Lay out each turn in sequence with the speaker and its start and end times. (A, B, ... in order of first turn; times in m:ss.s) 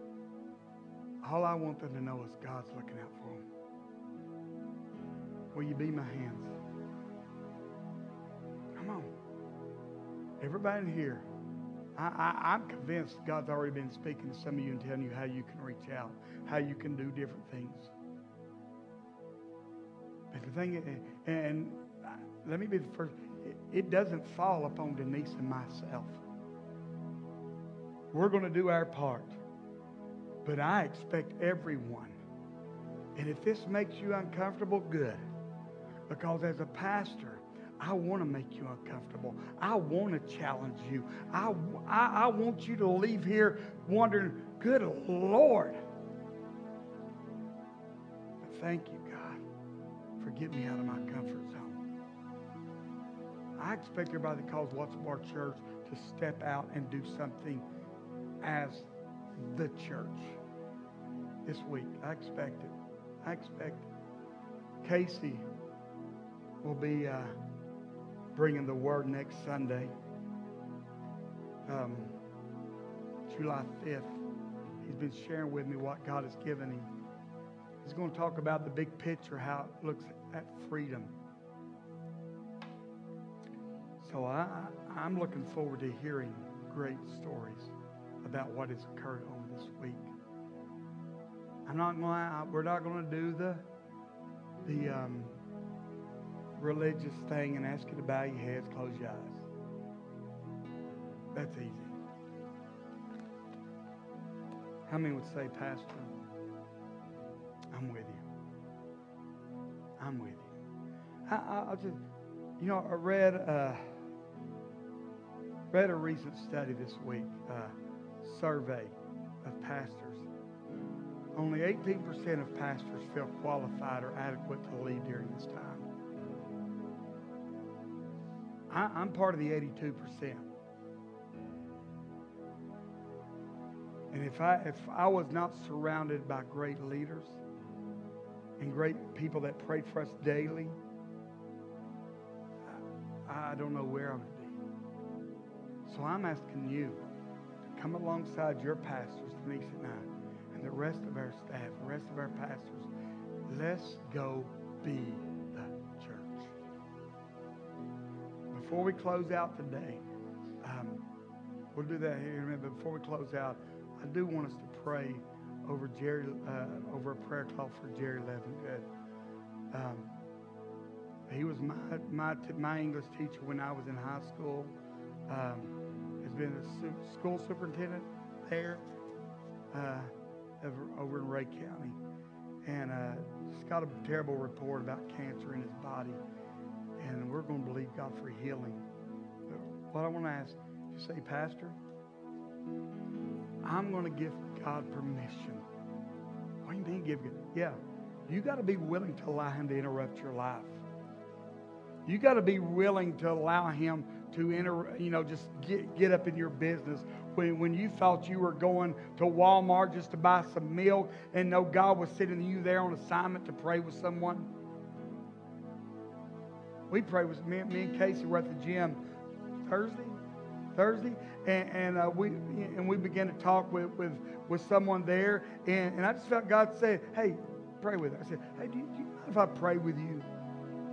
0:01.2-0:03.4 A
0:05.5-0:06.6 A
0:08.8-0:09.1 A
0:10.4-0:11.3 A
0:11.9-0:17.9 A
0:20.3-0:26.2 A
0:28.1-0:29.4 A
0:30.4-0:32.2 A
0:33.2-0:35.2 A
0:36.1-0:45.8 A
0:48.4-0:49.4 A
0:50.2-0:51.8 A
0:53.6-0:57.6 A
0:58.4-1:00.4 A
1:01.4-1:03.9 A
1:04.8-1:05.4 A
1:06.6-1:07.4 A
1:08.3-1:09.9 A
1:11.6-1:12.2 A
1:13.3-1:14.2 A
1:14.8-1:16.9 A
1:17.8-1:21.1 A
1:24.0-1:30.1 A
1:31.6-1:33.6 A
1:34.6-1:35.4 A
1:36.6-1:39.4 A
1:41.3-1:42.0 A
1:44.9-1:46.2 A
1:47.7-1:48.2 A
1:50.0-1:50.5 A
1:51.3-1:52.0 A
1:52.6-1:54.0 A
1:55.7-2:00.3 A
2:01.4-2:05.9 A
2:08.7-2:10.5 A
2:14.1-2:17.4 A
2:18.6-2:20.8 A
2:22.6-2:24.6 A
2:25.8-2:27.0 A
2:27.7-2:32.9 A
2:33.5-2:36.5 A
2:38.5-2:40.0 A
2:40.6-2:41.0 A
2:41.7-2:48.9 A
2:49.7-2:50.1 A
2:51.3-2:54.7 A
2:55.3-2:58.8 A
2:59.7-3:02.0 A
3:02.6-3:06.2 A
3:07.0-3:08.9 A
3:09.5-3:11.8 A
3:13.6-3:15.6 A
3:16.6-3:20.8 A
3:22.0-3:34.5 A
3:36.9-3:39.0 A
3:39.6-3:40.2 A
3:40.7-3:50.3 A